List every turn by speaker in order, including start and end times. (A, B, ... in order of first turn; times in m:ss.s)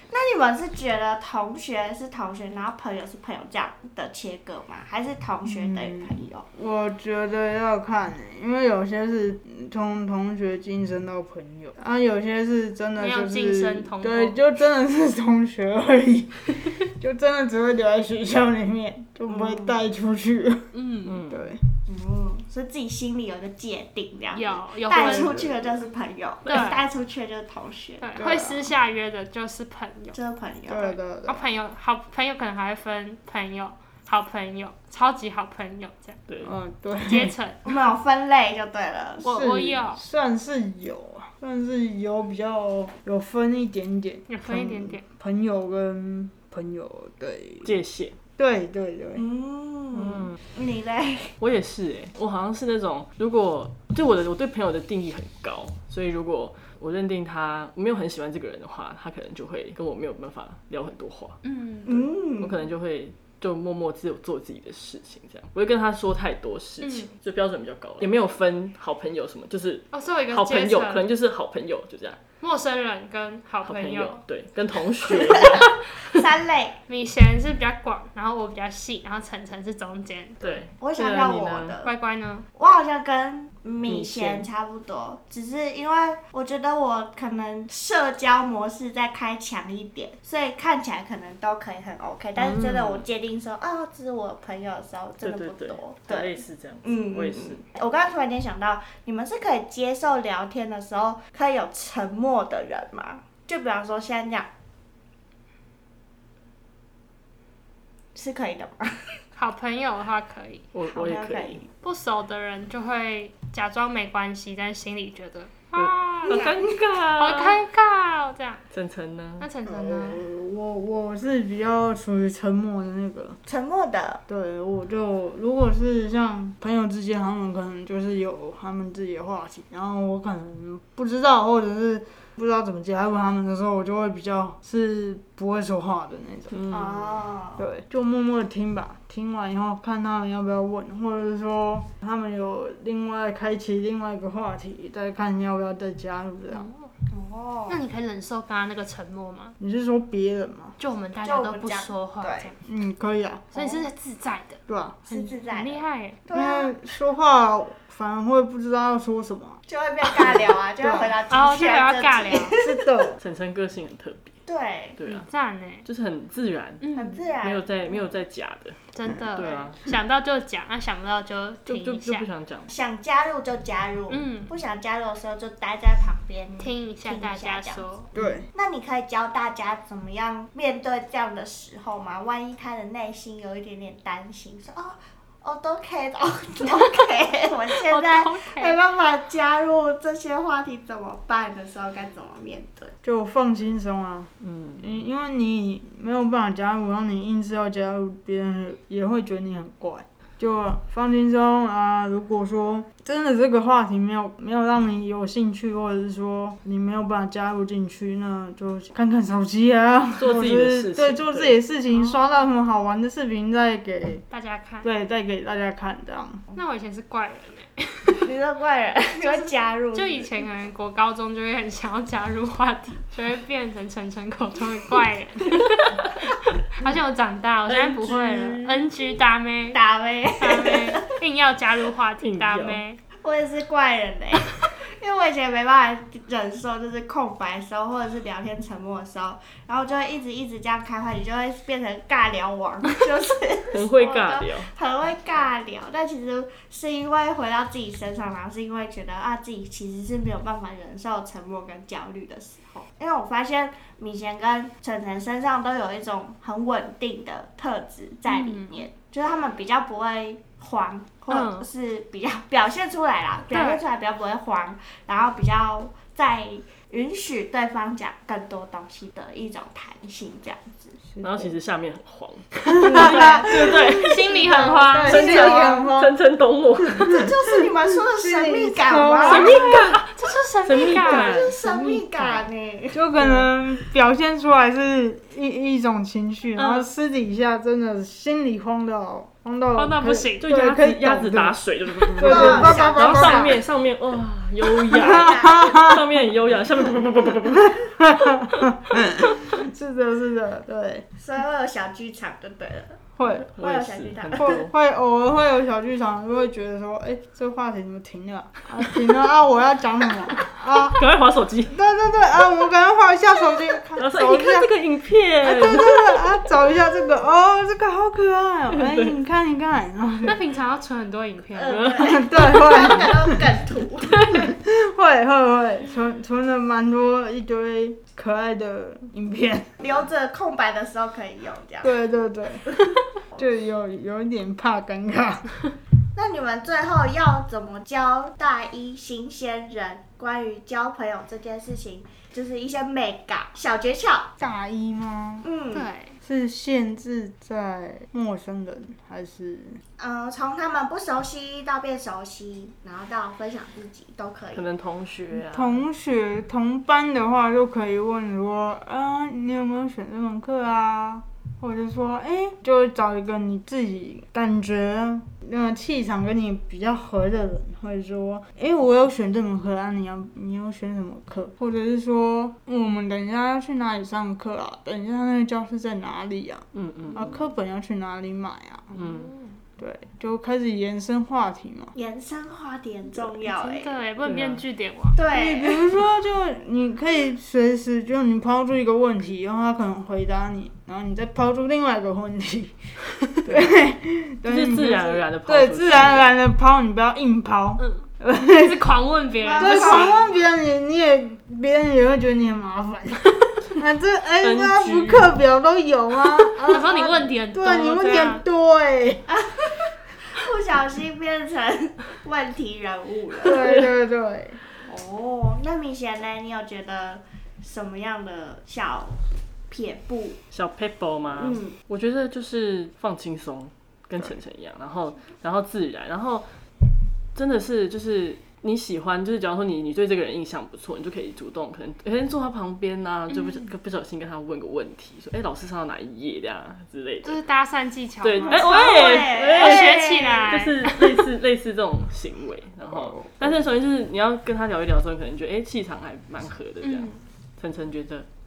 0:00.1-0:06.4 A
0:05.4-0:20.7 B
0:13.0-0:14.4 C
0:19.3-0:19.8 A
0:20.7-0:21.2 C
0:21.0-0:21.4 D
0:21.3-0:21.6 B
0:21.8-0:28.1 A
0:24.3-0:25.4 C
0:24.9-0:25.8 B
0:26.4-0:26.8 C
0:28.0-0:30.2 C
0:28.2-0:28.6 B
0:30.1-0:31.0 A
0:30.7-0:31.4 B
0:31.2-0:36.2 C
0:36.4-0:37.3 B
0:37.0-0:37.6 C
0:37.6-0:39.2 A
0:39.2-0:40.0 C
0:39.2-0:47.7 B
0:44.3-0:45.0 C
0:47.6-0:48.1 D
0:48.4-0:49.2 B
0:49.1-0:51.3 A
0:50.0-0:50.2 D
0:51.4-1:01.4 D
1:01.4-1:02.1 C
1:01.8-1:02.6 A
1:02.4-1:12.2 D
1:06.8-1:07.1 C
1:09.9-1:11.0 C
1:12.4-1:14.2 C
1:13.6-1:15.8 D
1:15.1-1:16.8 A
1:16.9-1:20.6 C
1:20.4-1:21.8 D
1:20.8-1:21.9 A
1:21.8-1:22.4 C
1:22.5-1:36.3 A
1:23.8-1:24.5 D
1:32.4-1:33.0 D
1:35.2-1:37.6 D
1:36.8-1:44.5 A
1:48.1-1:49.2 A
1:49.3-1:50.6 C
1:50.7-1:51.6 D
1:50.9-1:51.6 A
1:51.8-1:56.5 C
1:55.7-1:57.6 D
1:56.3-1:56.8 A
1:57.2-1:58.6 C
1:58.7-1:59.5 D
1:59.4-2:00.2 C
1:59.6-2:03.4 B
2:03.4-2:04.2 A
2:04.3-2:16.5 B
2:16.5-2:17.1 D
2:16.7-2:17.6 A
2:17.6-2:26.7 B
2:26.5-2:26.9 C
2:27.1-2:27.8 A
2:27.7-2:29.5 C
2:29.6-2:30.7 B
2:30.8-2:32.5 C
2:31.2-2:32.5 A
2:32.6-2:33.8 B
2:33.5-2:36.2 C
2:34.7-2:35.1 B
2:35.1-2:36.8 A
2:36.3-2:39.6 B
2:39.7-2:43.1 A
2:40.1-2:41.1 B
2:41.3-2:42.5 C
2:42.6-2:43.2 B
2:43.2-2:44.4 D
2:44.5-2:45.0 A
2:45.0-2:45.3 D
2:45.1-2:45.8 C
2:45.8-2:46.8 D
2:46.8-2:47.2 C
2:46.9-2:48.0 A
2:47.4-2:48.8 D
2:48.9-2:52.3 C
2:49.4-2:49.8 D
2:51.6-2:52.7 D
2:52.7-3:12.9 A
2:54.1-2:54.5 C
2:56.6-2:58.1 C
2:58.1-2:58.5 B
3:07.8-3:08.8 C
3:13.0-3:34.2 B
3:14.4-3:14.9 D
3:30.2-3:31.6 D
3:34.3-3:34.9 C
3:34.8-3:36.4 B
3:36.5-3:38.2 C
3:38.1-3:40.3 A
3:39.2-3:49.8 C
3:47.7-3:48.7 D
3:49.7-3:51.1 A
3:50.4-3:53.0 C
3:52.2-3:52.8 D
3:53.2-4:31.0 A
4:03.7-4:04.7 D
4:18.3-4:18.8 C
4:21.3-4:21.7 C
4:23.5-4:23.8 C
4:31.1-4:31.5 B
4:31.2-4:34.2 D
4:32.7-4:36.1 B
4:32.8-4:35.9 A
4:33.9-4:35.4 C
4:35.1-4:37.2 D
4:36.9-4:39.9 B
4:37.0-4:39.6 A
4:39.2-4:40.0 D
4:39.2-4:41.5 C
4:40.6-4:42.5 D
4:40.9-4:43.0 A
4:42.9-4:53.6 B
4:43.2-4:43.4 D
4:46.6-4:46.8 C
4:49.8-4:50.5 C
4:50.4-4:57.9 D
4:52.2-4:53.6 A
4:54.9-4:56.0 B
4:54.9-4:55.7 A
4:57.6-5:01.0 B
5:01.2-5:04.6 A
5:03.2-5:03.5 B
5:03.6-5:04.7 D
5:04.3-5:11.0 B
5:10.8-5:11.8 D
5:11.7-5:14.7 B
5:14.0-5:16.3 D
5:15.4-5:20.4 B
5:18.7-5:19.1 D
5:20.2-5:21.8 C
5:21.5-5:24.4 A
5:21.6-5:23.0 D
5:22.0-5:23.4 B
5:24.5-5:29.8 B
5:29.8-5:32.0 A
5:31.8-5:32.7 B
5:32.7-5:33.4 A
5:33.4-5:35.5 B
5:36.1-5:44.3 A
5:44.4-5:45.4 B
5:45.4-5:45.9 A
5:45.7-5:46.2 C
5:46.2-5:49.8 B
5:50.0-5:54.6 A
5:54.5-5:55.8 D
5:55.3-6:19.0 B
6:16.7-6:17.3 D
6:18.9-6:19.3 D
6:19.0-6:19.6 C
6:19.8-6:21.9 B
6:21.9-6:24.0 A
6:23.4-6:25.2 C
6:24.2-6:24.6 D
6:25.1-6:25.8 A
6:25.3-6:32.8 B
6:33.3-6:38.8 B
6:33.4-6:33.8 D
6:34.4-6:36.3 D
6:37.8-6:40.1 C
6:39.4-6:40.3 A
6:39.6-6:49.3 B
6:44.4-6:45.3 D
6:46.6-6:48.4 C
6:49.3-6:53.8 A
6:53.4-6:54.6 B
6:54.8-7:00.4 A
7:00.5-7:06.5 D
7:01.3-7:01.8 A
7:07.3-7:17.4 D
7:13.3-7:13.7 C
7:17.2-7:21.2 C
7:18.2-7:28.3 D
7:18.4-7:20.6 A
7:22.9-7:23.5 B
7:26.8-7:27.2 C